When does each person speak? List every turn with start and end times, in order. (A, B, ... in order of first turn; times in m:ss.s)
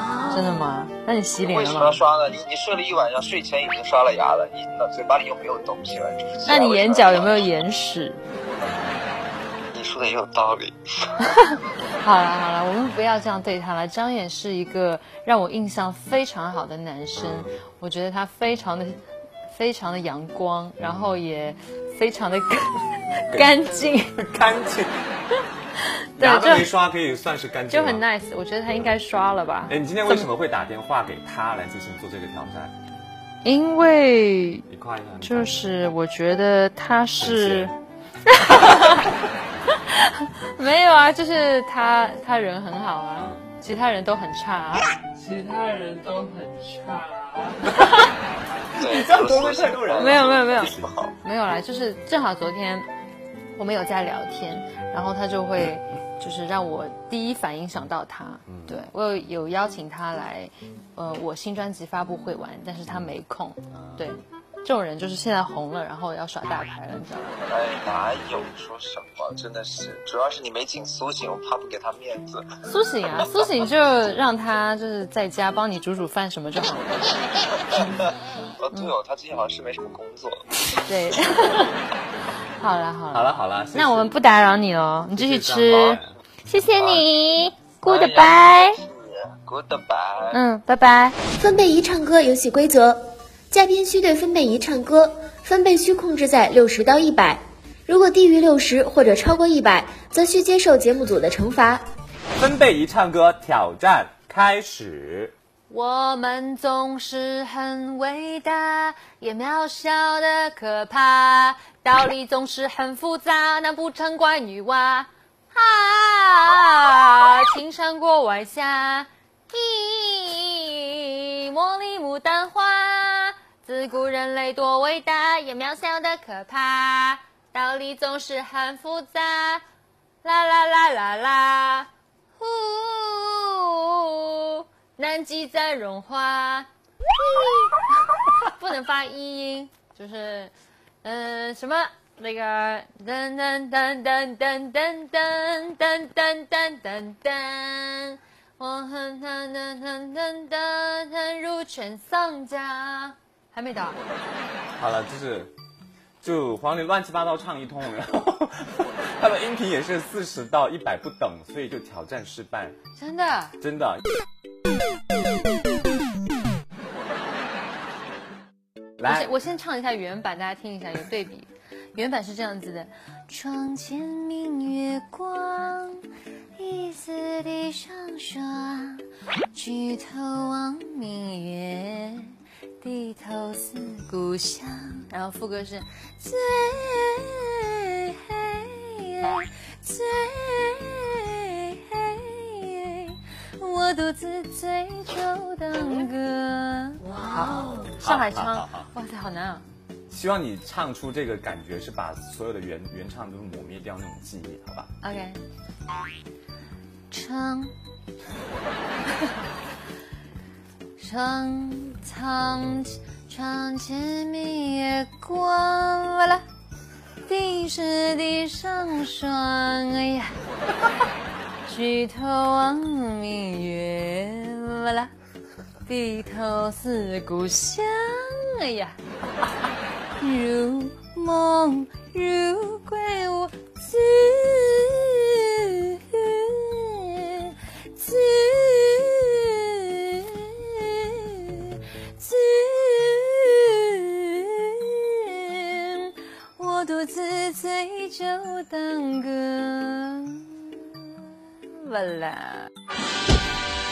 0:00.3-0:02.0 A
0:01.4-0:07.5 B
0:06.4-0:08.2 A
0:09.7-0:11.3 B
0:11.4-0:19.0 A
0:19.5-0:24.2 A
0:20.8-0:21.1 C
0:24.1-0:25.0 C
0:26.2-0:26.7 A
0:26.2-0:28.0 C
0:27.7-0:30.3 A
0:29.7-0:32.7 C
0:33.4-0:34.6 A
0:34.7-0:35.7 C
0:35.2-0:37.7 A
0:37.2-0:37.7 C
0:38.3-0:39.1 A
0:39.7-0:44.9 A
0:45.1-0:47.8 D
0:47.7-0:48.1 A
0:48.7-0:51.1 B
0:48.8-0:50.9 C
0:50.0-0:52.9 A
0:53.6-1:07.4 A
0:58.5-0:58.8 C
1:03.7-1:04.1 C
1:07.5-1:12.6 B
1:12.6-1:18.1 A
1:18.6-1:20.4 B
1:20.8-1:21.8 A
1:22.6-1:28.8 A
1:23.1-1:24.1 C
1:25.1-1:26.1 C
1:26.8-1:27.0 C
1:27.8-1:30.4 B
1:30.3-1:31.2 A
1:31.4-1:41.8 E
1:42.3-1:45.3 C
1:45.7-2:09.6 A
2:10.2-2:16.7 A
2:17.2-2:20.5 A
2:21.0-2:34.0 A
2:34.8-2:35.5 C
2:36.2-2:42.8 C
2:43.0-2:43.6 A
2:43.6-2:44.0 C
2:49.0-2:49.3 C
2:49.0-2:56.0 A
2:56.6-3:19.6 A
3:18.0-3:18.9 C
3:20.1-3:24.9 C
3:25.0-3:25.4 A
3:27.1-3:27.7 A
3:31.0-3:36.4 A
3:37.2-3:40.4 A
3:41.6-3:45.1 A
3:45.8-3:49.0 A
3:50.2-4:12.7 A